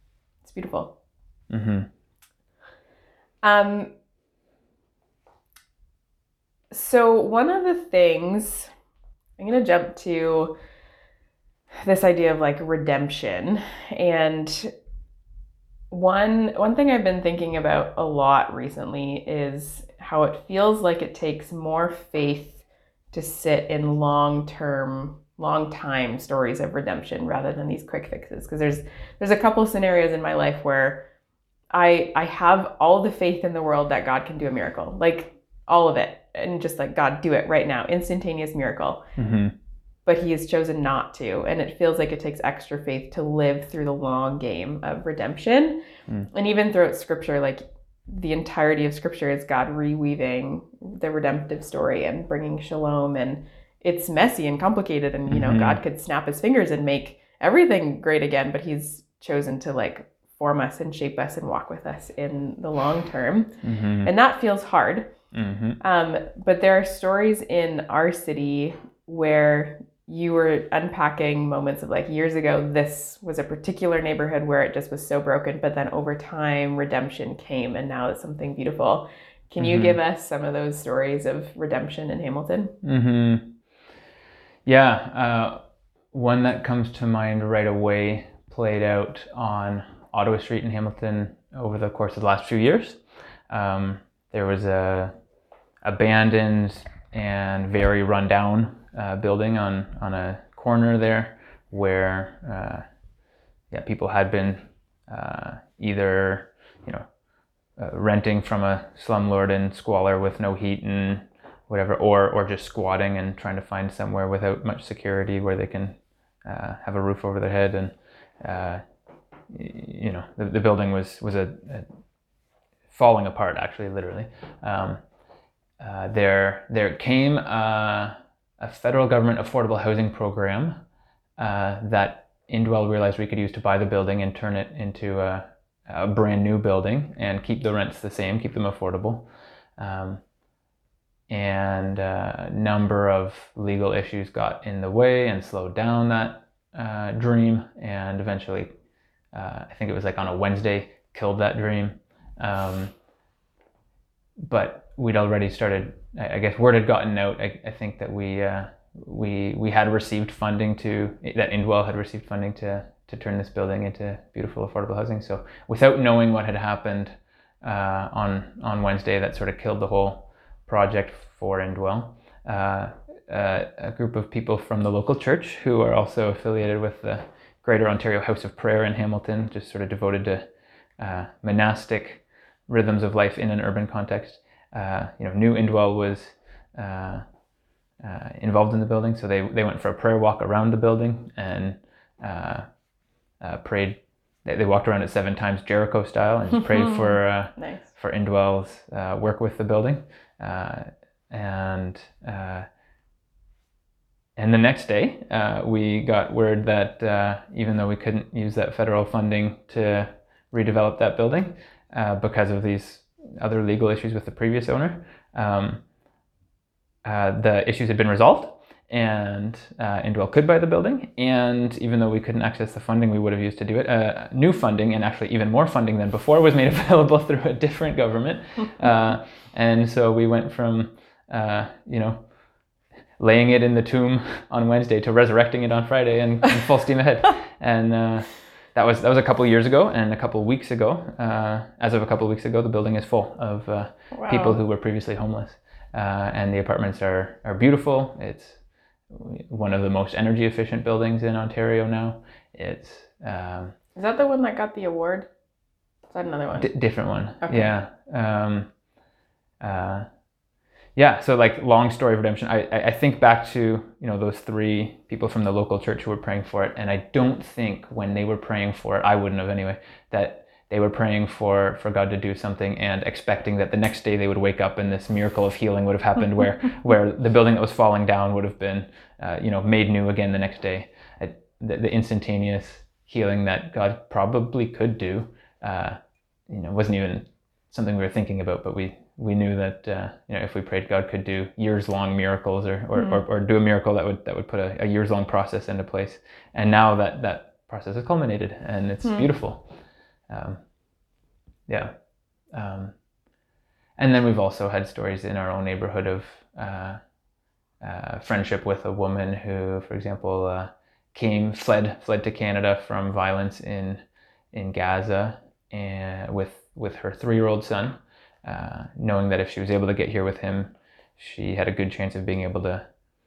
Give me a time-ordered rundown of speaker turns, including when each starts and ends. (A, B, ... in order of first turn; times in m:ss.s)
0:00.4-0:00.9 A
0:01.5-0:01.9 B
0:03.4-0:03.9 A
0:06.7-0:08.7 A
0:09.4-0:10.6 A
0:11.8-0:14.7 A
0:15.9-0:31.1 A
0:31.7-0:39.0 A
0:39.2-0:39.5 B
0:40.0-1:05.1 A
0:55.3-0:55.8 B
1:03.6-1:04.1 B
1:05.3-1:05.8 B
1:05.8-1:22.7 A
1:19.6-1:20.0 B
1:22.8-1:23.6 B
1:24.6-1:35.1 B
1:35.8-1:42.8 B
1:43.7-1:47.0 B
1:47.8-1:58.8 B
1:59.5-2:01.9 B
2:02.9-2:05.0 B
2:05.8-2:10.8 B
2:11.4-2:20.2 B
2:21.3-2:28.7 B
2:29.3-2:32.9 B
2:34.4-3:00.4 B
3:01.0-3:07.2 B
3:08.0-3:12.6 B
3:13.4-3:22.7 B
3:17.6-3:17.9 A
3:24.4-3:35.8 B
3:37.0-3:52.2 B
3:53.2-4:13.7 B
4:04.1-4:04.6 A
4:14.0-4:15.3 A
4:16.1-4:16.7 A
4:16.6-4:18.7 B
4:17.4-4:17.7 A
4:19.6-4:20.1 B
4:21.0-4:59.7 B
4:52.9-4:53.2 A
5:00.3-5:00.6 B
5:01.7-5:01.9 B
5:02.5-5:03.0 B
5:04.0-5:07.0 B
5:07.8-5:14.0 B
5:14.5-5:22.8 B